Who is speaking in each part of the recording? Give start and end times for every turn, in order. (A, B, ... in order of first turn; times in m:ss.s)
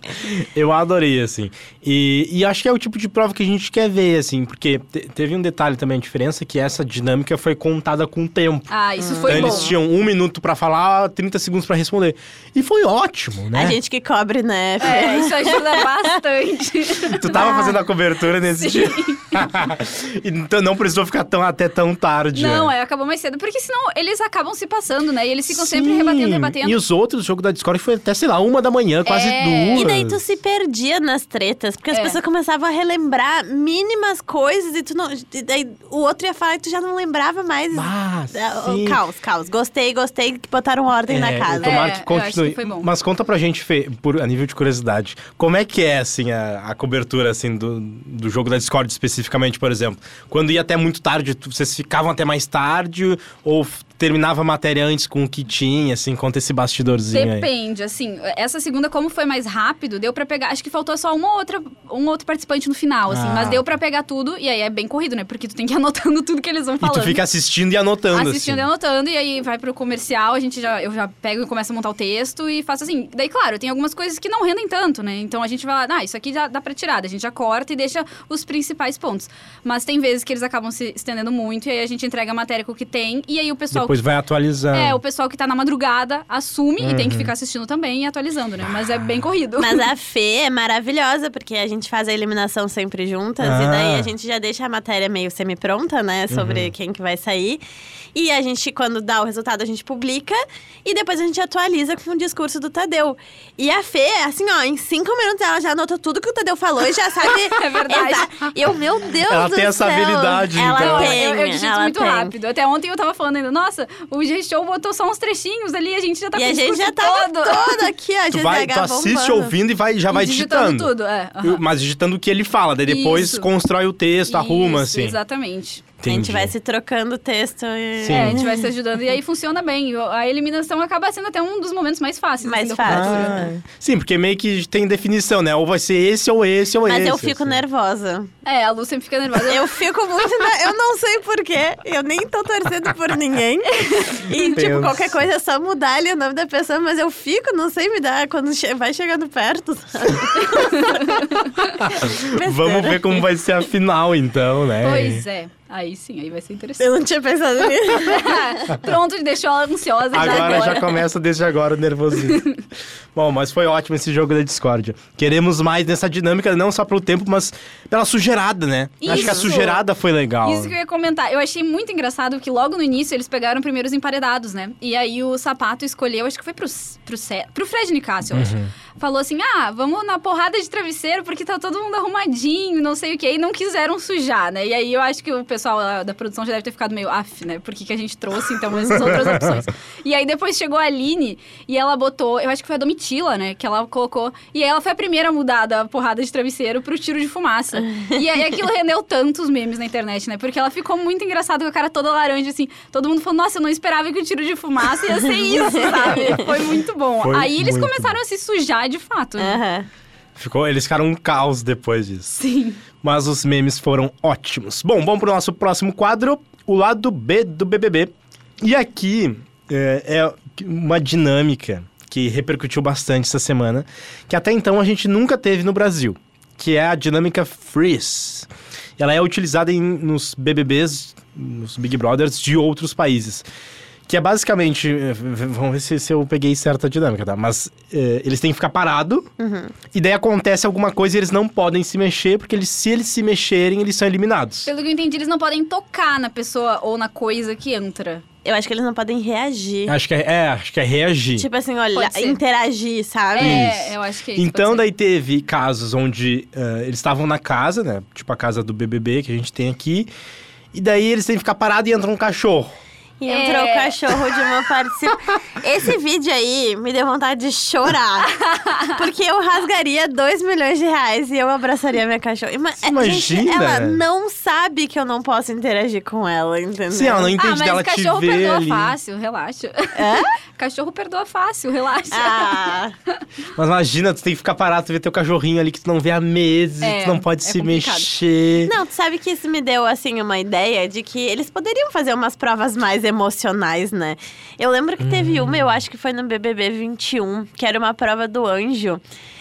0:00.1-0:08.7 A
0:08.7-0:09.7 B
0:09.0-0:09.7 C
0:09.3-0:13.8 A
0:13.5-0:15.9 C
0:14.8-0:17.7 B
0:17.1-0:22.7 A
0:17.3-0:17.8 C
0:18.4-0:19.4 B
0:22.3-0:26.8 B
0:25.5-0:30.2 A
0:29.0-0:29.8 B
0:29.7-0:41.9 C
0:31.9-0:32.2 B
0:37.7-0:39.0 A
0:41.1-0:57.5 A
0:41.6-0:42.9 B
0:57.1-1:07.2 B
1:03.1-1:03.6 A
1:06.8-1:08.6 A
1:08.1-1:24.0 B
1:23.7-1:25.0 A
1:24.7-1:29.9 B
1:26.8-1:27.3 A
1:29.6-1:37.6 C
1:33.4-1:34.1 A
1:36.3-1:36.7 A
1:38.1-1:52.3 C
1:47.4-1:48.5 B
1:49.3-1:51.2 A
1:50.6-1:57.9 B
1:56.3-1:59.5 C
1:58.3-2:00.9 A
2:00.1-2:01.6 B
2:01.4-2:05.2 A
2:02.9-2:03.5 B
2:04.3-2:05.8 B
2:06.0-2:06.5 A
2:06.1-2:08.7 C
2:08.0-2:08.4 A
2:08.1-2:13.4 B
2:12.4-2:13.5 C
2:12.8-2:17.6 A
2:16.8-2:18.3 C
2:18.4-2:19.7 B
2:19.4-2:31.2 C
2:23.8-2:24.4 B
2:24.4-2:25.1 A
2:30.4-2:31.7 B
2:31.8-2:35.2 A
2:32.0-2:33.2 C
2:34.8-2:36.9 B
2:36.8-2:38.6 C
2:38.0-2:40.9 B
2:40.1-2:42.4 A
2:40.2-2:40.8 C
2:42.2-2:42.6 B
2:43.1-2:50.7 A
2:49.0-2:49.8 B
2:49.1-2:49.4 C
2:50.4-3:29.6 B
2:58.3-2:58.7 A
3:08.9-3:09.6 A
3:25.1-3:26.5 C
3:27.2-3:28.2 A
3:29.4-3:29.9 C
3:30.4-3:32.4 A
3:32.4-3:32.8 B
3:33.0-3:53.4 A
3:54.1-3:59.3 A
3:59.4-3:59.7 C
3:59.9-4:04.7 A
4:04.6-4:08.2 B
4:08.4-4:09.9 C
4:09.9-4:11.5 A
4:11.4-4:13.7 C
4:11.9-4:12.4 B
4:13.3-4:14.9 B
4:13.4-4:20.1 A
4:20.7-4:22.7 A
4:23.2-4:28.3 C
4:23.3-4:24.0 B
4:28.3-4:28.9 B
4:28.9-4:37.3 C
4:32.8-4:34.0 A
4:36.9-4:38.9 A
4:37.4-4:42.6 B
4:39.9-4:40.3 C
4:42.1-4:42.9 C
4:43.6-4:48.7 A
4:46.8-4:48.1 B
4:48.6-4:59.0 C
4:55.0-4:55.8 A